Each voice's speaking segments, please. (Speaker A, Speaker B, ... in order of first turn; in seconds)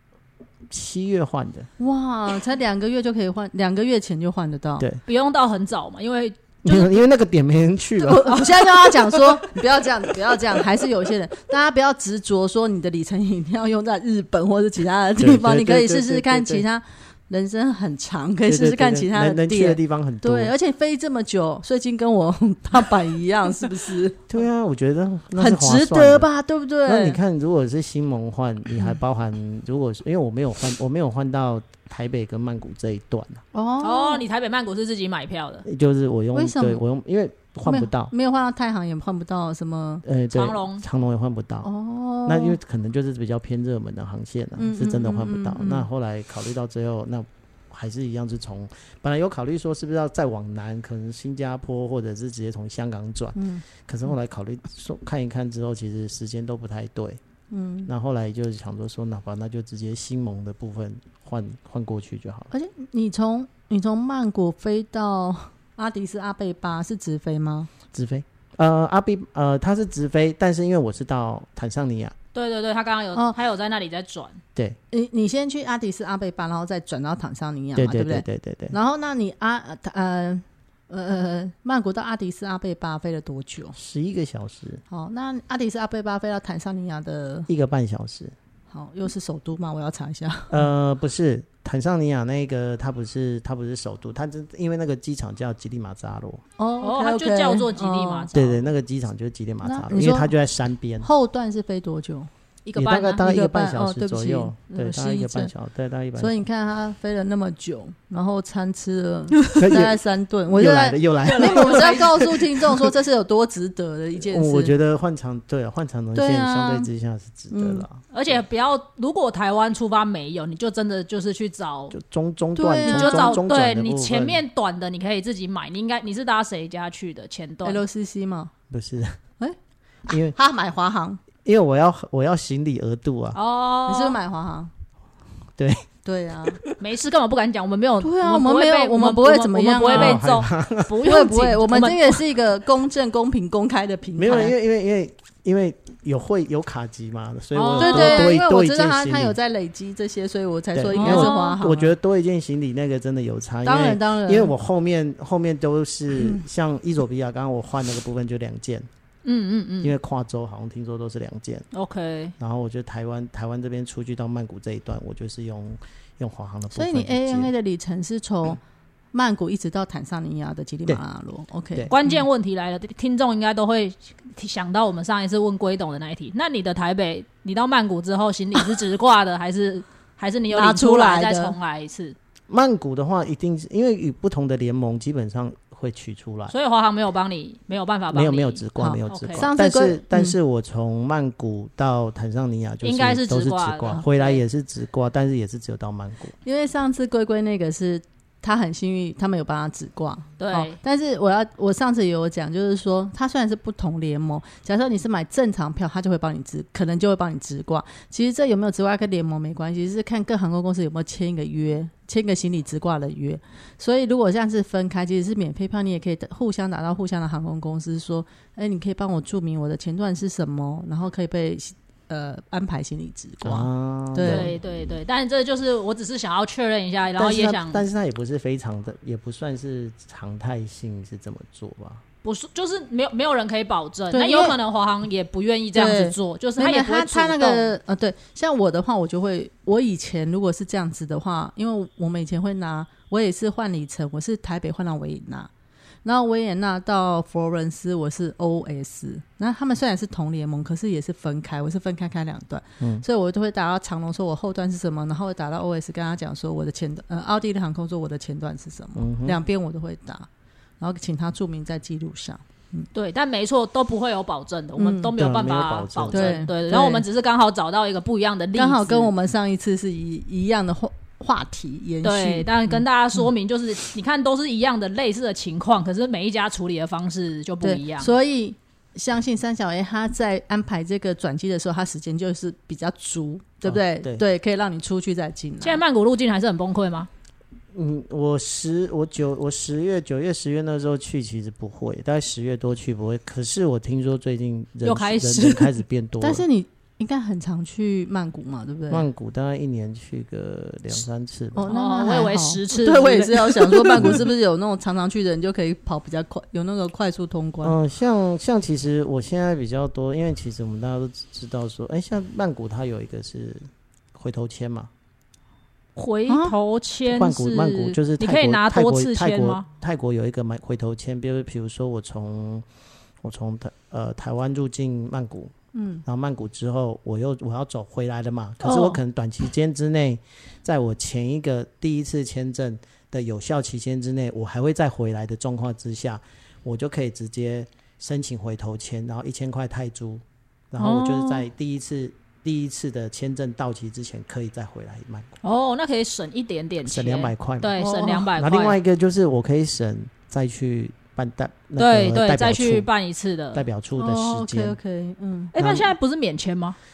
Speaker A: 0.7-1.7, 6.6-8.5, 15.2-16.6, 18.5-20.5, 24.3-26.3, 26.8-33.4, 35.6-38.1, 40.0-41.7, 42.2-57.2, 57.9-62.5, 67.9-72.2, 77.8-78.7, 83.7-84.8, 87.5-88.3, 90.5-96.4, 98.3-101.1, 102.7-106.3, 109.5-112.8, 114.2-118.4, 121.9-124.4, 128.7-129.2, 130.1-130.3, 131.4-133.4, 135.6-135.9, 136.4-136.8, 139.9-141.0, 144.2-149.3, 150.7-158.9, 159.8-161.6, 162.4-167.5, 182.5-186.5, 188.1-196.3, 223.4-224.6, 227.2-232.0, 258.9-259.4, 265.1-266.4, 283.6-284.2, 287.7-296.4, 298.9-301.7, 303.9-304.3, 307.6-314.9, 317.1-322.6, 323.2-325.5, 326.0-345.4, 346.8-352.9, 353.5-354.8, 355.6-355.9
Speaker B: 1.8-4.8, 8.0-24.2, 25.4-27.2, 33.5-34.2, 36.3-36.8, 37.6-40.0, 41.6-42.6, 44.6-45.9, 53.3-53.6, 57.5-57.9, 62.5-67.7, 74.9-83.8, 84.9-87.5, 88.7-90.6, 96.6-98.3, 99.6-100.3, 101.0-102.3, 103.2-105.5, 106.2-114.7, 116.1-116.9, 117.5-117.8, 122.5-123.4, 127.6-128.5, 130.1-131.2, 133.8-134.7, 136.0-136.6, 138.0-140.2, 141.0-144.5, 147.8-151.9, 153.6-154.5, 166.7-168.6, 169.1-172.2, 180.5-181.6, 188.8-190.4, 196.4-224.5, 234.1-234.6, 235.7-245.5, 246.0-260.3, 260.8-262.9, 264.8-265.1, 266.1-267.0, 268.5-272.8, 277.6-285.8, 296.2-299.1, 301.5-307.8, 316.3-316.6, 325.7-326.0, 347.8-348.3, 353.9-355.5
Speaker C: 5.0-7.0, 8.3-9.4, 33.8-35.6, 40.3-40.8, 72.3-74.4, 96.8-98.6, 102.6-103.2, 111.2-112.4, 118.1-122.0, 122.8-127.8, 133.3-134.2, 136.8-142.2, 147.5-148.3, 150.9-151.6, 159.2-159.9, 161.7-162.3, 171.9-182.2, 186.5-189.5, 192.8-194.4, 200.4-200.8, 224.2-227.8, 232.2-237.7, 262.9-269.1, 272.0-278.1, 285.6-287.1, 294.8-295.8, 301.7-304.2, 315.9-319.6, 328.6-329.0, 340.8-341.5, 345.4-348.8, 351.8-353.6, 355.5-356.8